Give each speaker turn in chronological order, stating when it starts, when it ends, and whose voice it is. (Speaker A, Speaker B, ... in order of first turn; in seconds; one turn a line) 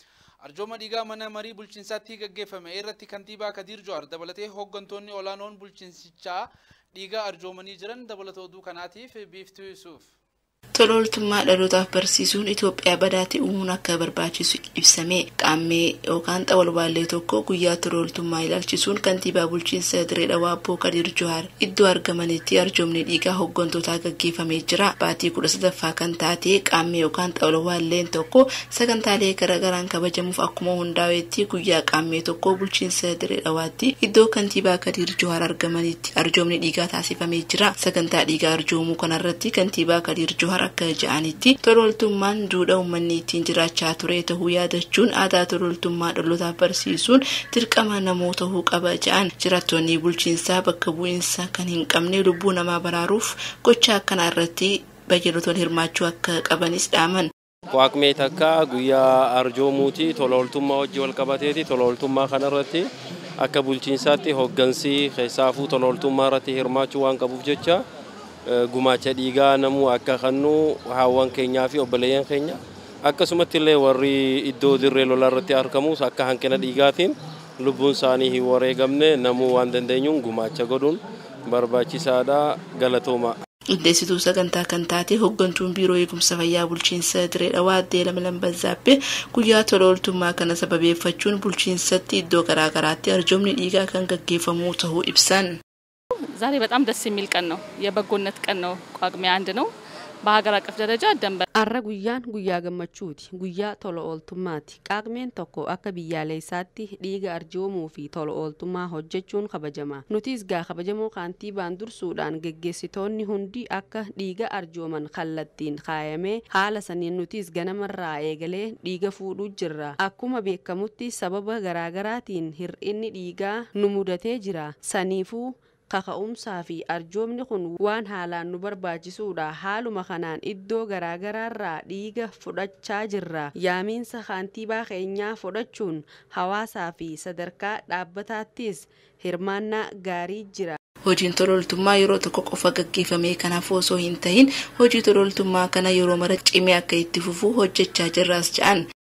Speaker A: 0.4-10.1
Speaker B: 10.8-57.3
Speaker C: 57.7-67.8
Speaker C: 68.5-83.4
Speaker B: 83.7-95.5
Speaker D: 96.4-99.7
Speaker D: 100.2-101.4
Speaker E: 101.6-140.8
Speaker B: 141.1-148.8